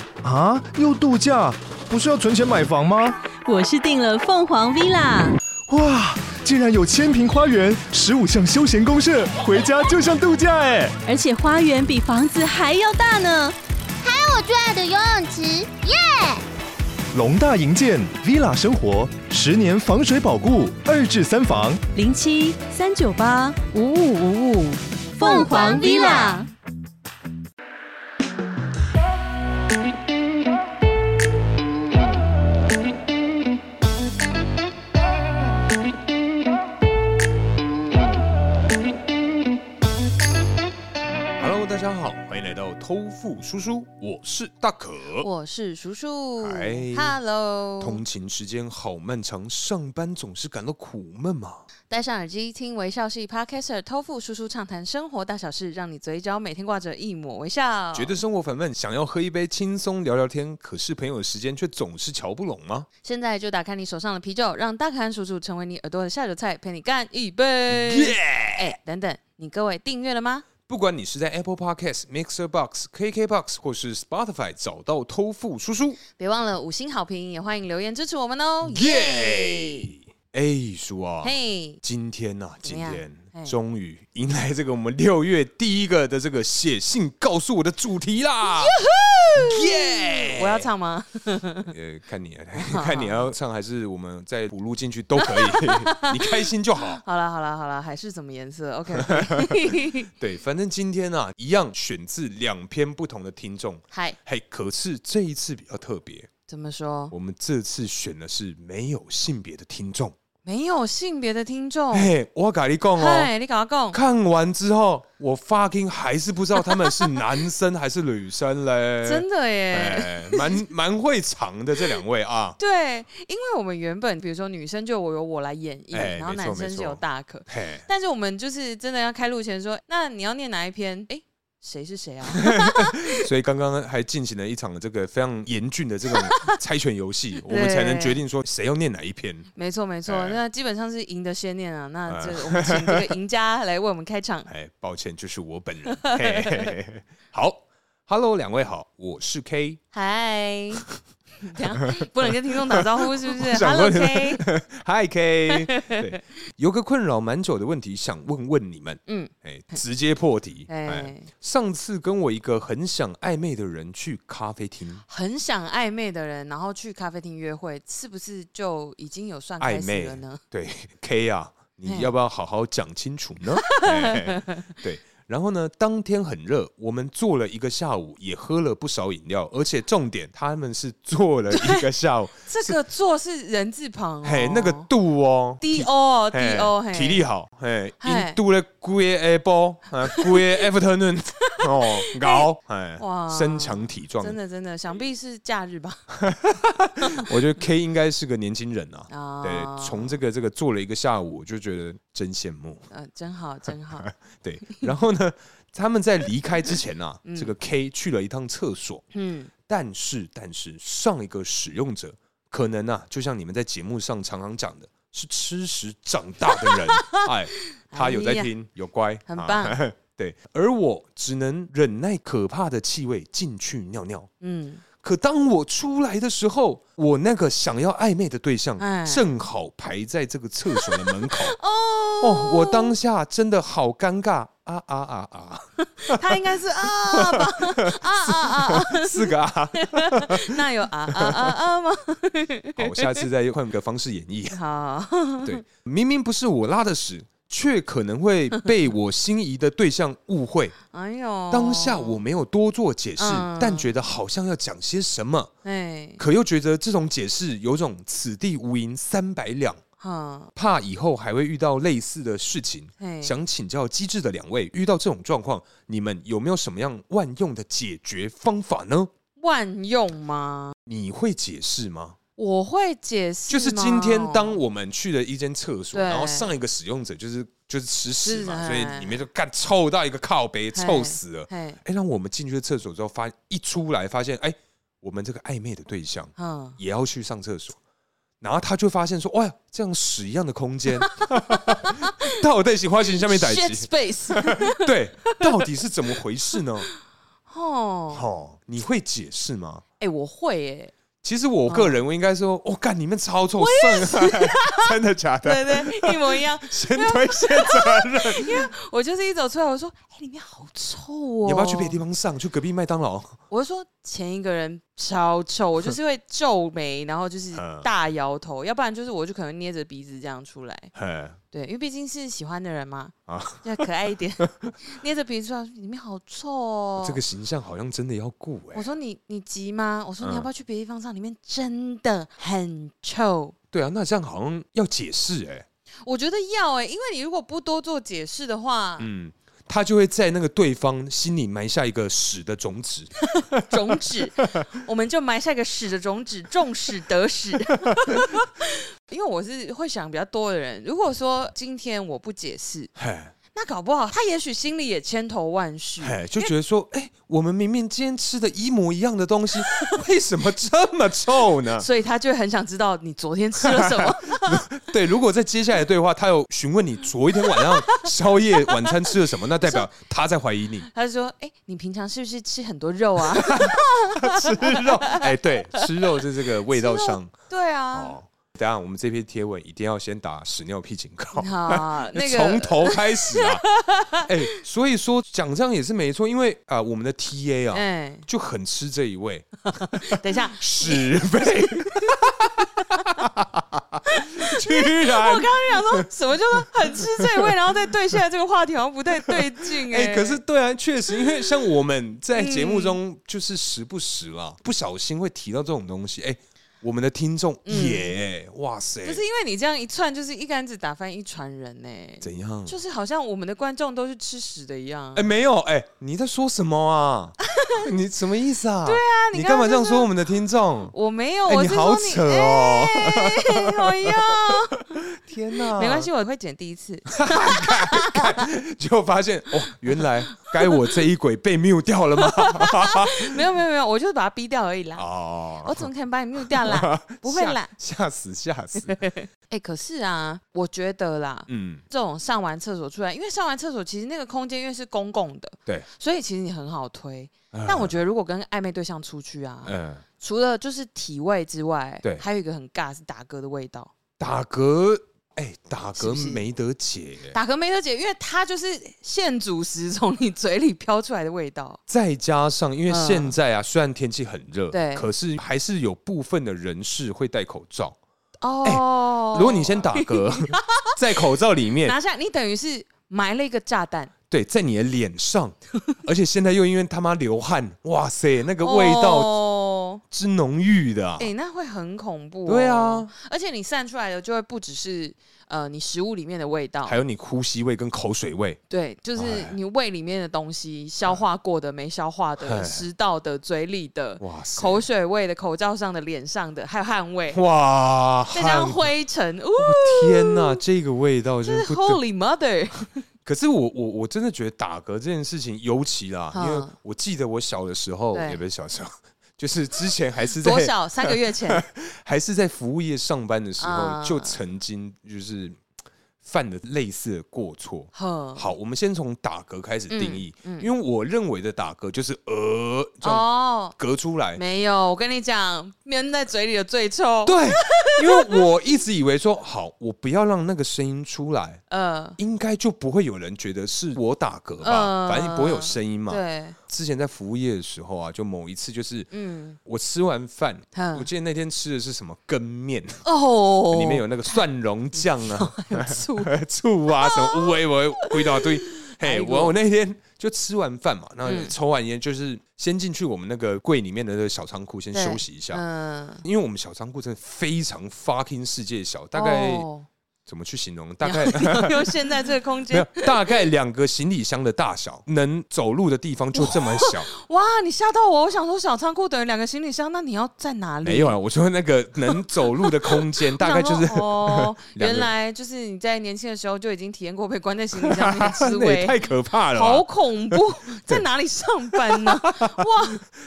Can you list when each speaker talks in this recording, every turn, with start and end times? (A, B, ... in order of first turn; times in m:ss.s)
0:00.2-0:03.2 A
0:03.4-0:05.4 B
0:05.7-0:11.0 A
0:11.0-0:13.6 B
0:14.0-0:16.4 C
0:17.1-0:21.8 A
0:22.0-0:26.5 B
0:25.2-0:26.4 C
0:41.4-0:45.3 D
0:45.2-0:48.0 E
0:46.4-0:47.2 D
0:47.8-0:51.7 D
0:51.9-0:58.2 E
0:57.9-1:02.9 D
1:03.0-1:10.4 E
1:07.7-1:08.7 D
1:10.7-1:16.0 D
1:16.2-1:19.9 E
1:18.6-1:28.8 D
1:21.2-1:21.8 E
1:22.6-1:23.6 E
1:28.5-1:31.7 E
1:29.4-1:30.7 D
1:31.7-1:37.0 D
1:32.6-1:33.2 E
1:35.2-1:36.4 E
1:37.0-1:40.1 E
1:39.0-1:46.3 D
1:43.9-1:44.2 E
1:46.5-1:47.1 E
1:47.1-1:50.2 D
1:50.4-1:52.1 E
1:51.9-1:53.3 D
1:53.0-1:54.0 E
1:53.9-2:02.6 D
1:59.0-2:00.6 E
2:02.6-2:13.3 E
2:05.9-2:07.9 D
2:12.3-2:19.5 D
2:16.2-2:16.6 E
2:17.5-2:18.2 E
2:19.6-2:24.5 E
2:20.1-2:20.4 D
2:22.1-2:23.1 D
2:24.5-2:29.8 D
2:25.9-2:26.7 E
2:29.9-2:30.8 E
2:31.4-2:34.4 E
2:32.7-2:45.0 D
2:35.5-2:36.1 E
2:39.1-2:39.8 E
2:40.7-2:41.3 E
2:45.1-2:50.4 E
2:49.6-3:02.8 D
2:51.9-2:52.1 E
2:53.6-2:54.8 E
3:01.5-3:01.9 E
3:02.5-3:04.9 E
3:04.2-3:14.4 D
3:05.6-3:07.3 E
3:08.0-3:08.4 E
3:10.1-3:10.5 E
3:11.5-3:12.4 E
3:13.0-3:16.1 E
3:16.1-3:22.8 D
3:17.0-3:17.3 E
3:19.1-3:20.2 E
3:22.9-3:24.1 E
3:24.0-3:29.0 D
3:27.2-3:27.5 E
3:29.1-3:29.5 E
3:29.6-3:44.3 D
3:36.7-3:37.2 E
3:37.9-3:38.5 E
3:39.3-3:39.8 E
3:44.4-3:44.8 E
3:45.0-3:51.6 D
3:48.8-3:49.3 E
3:50.7-3:53.0 E
3:52.2-4:01.5 D
3:55.9-4:03.3 E
4:02.8-4:04.6 D
4:04.5-4:05.6 E
4:05.4-4:10.8 D
4:10.9-4:12.2 E
4:11.5-4:15.5 D
4:13.2-4:13.9 E
4:15.6-4:16.2 E
4:16.2-4:19.8 D
4:20.0-4:20.5 E
4:20.5-4:29.1 D
4:23.0-4:23.3 E
4:29.4-4:30.8 E
4:30.8-4:32.2 D
4:32.4-4:34.6 E
4:33.5-4:47.8 D
4:35.9-4:36.5 E
4:38.2-4:39.2 E
4:40.7-4:41.8 E
4:46.4-4:46.8 E
4:48.4-4:56.9 D
4:51.2-4:52.3 E
4:53.2-4:55.4 E
4:57.5-4:58.2 E
4:58.1-4:59.8 D
5:00.0-5:00.9 E
5:01.2-5:08.7 D
5:01.7-5:01.9 E
5:03.6-5:12.0 E
5:11.4-5:13.4 D
5:13.5-5:20.9 E
5:17.5-5:17.9 D
5:20.9-5:21.4 D
5:21.5-5:27.2 E
5:23.3-5:23.7 D
5:27.0-5:28.9 D
5:28.7-5:33.6 E
5:30.2-5:30.5 D
5:33.7-5:35.6 D
5:36.0-5:39.1 E
5:39.0-5:43.1 D
5:43.4-5:52.9 E
5:47.8-5:48.2 D
5:53.0-5:53.3 D
5:53.5-5:56.5 E
5:56.0-6:01.9 D
5:59.6-6:00.0 E
6:01.8-6:04.7 E
6:03.6-6:10.9 D
6:07.4-6:08.1 E
6:08.6-6:09.9 E
6:10.8-6:18.2 E
6:13.3-6:17.3 D
6:17.9-6:38.1 D
6:21.3-6:24.3 E
6:27.7-6:28.2 E
6:29.7-6:32.2 E
6:34.1-6:40.4 E
6:39.2-6:49.2 D
6:41.1-6:41.5 E
6:42.3-6:43.0 E
6:47.6-6:48.2 E
6:49.0-6:55.3 E
6:52.2-6:52.8 D
6:55.1-7:00.9 D
6:57.5-6:57.8 E
6:58.8-7:00.1 E
7:00.9-7:05.0 E
7:01.5-7:06.1 D
7:05.7-7:08.5 E
7:07.1-7:13.4 D
7:12.2-7:15.0 E
7:15.0-7:15.9 D
7:15.6-7:17.7 E
7:16.4-7:19.0 D
7:18.8-7:33.9 E
7:21.5-7:21.8 D
7:27.5-7:27.9 D
7:29.6-7:30.0 D
7:34.2-7:37.4 D
7:36.0-7:36.4 E
7:37.3-7:41.8 E
7:41.9-7:48.0 D
7:42.9-7:43.3 E
7:44.7-7:45.1 E
7:48.4-7:50.9 E
7:48.6-7:52.0 D
7:51.8-7:54.1 E
7:54.3-7:59.4 D
7:58.6-8:00.0 E
8:00.1-8:01.3 D
8:01.2-8:07.0 E
8:02.4-8:03.1 D
8:06.8-8:08.6 D
8:08.7-8:17.4 E
8:09.2-8:09.5 D
8:12.4-8:12.8 D
8:14.2-8:14.8 D
8:17.3-8:18.9 D
8:18.3-8:20.6 E
8:19.6-8:22.0 D
8:21.4-8:23.0 E
8:23.2-8:35.6 D
8:26.3-8:26.7 E
8:28.1-8:28.4 E
8:30.4-8:31.6 E
8:33.6-8:34.4 E
8:36.2-8:44.4 D
8:37.9-8:38.5 E
8:39.9-8:40.7 E
8:43.0-8:43.8 E
8:44.4-8:48.4 E
8:47.2-8:51.6 D
8:51.7-8:52.2 E
8:52.2-8:59.1 D
8:54.6-8:56.6 E
8:59.1-8:59.6 E
8:59.6-9:03.0 D
9:00.7-9:01.1 E
9:03.0-9:04.4 E
9:03.7-9:15.6 D
9:05.0-9:06.3 E
9:07.0-9:09.6 E
9:11.2-9:11.5 E
9:14.9-9:16.2 E
9:16.2-9:19.7 D
9:19.1-9:19.9 E
9:20.2-9:22.0 D
9:21.0-9:23.3 E
9:22.7-9:27.1 D
9:26.4-9:31.2 E
9:30.8-9:35.1 D
9:32.6-9:43.0 E
9:37.8-9:41.0 D
9:41.8-9:42.6 D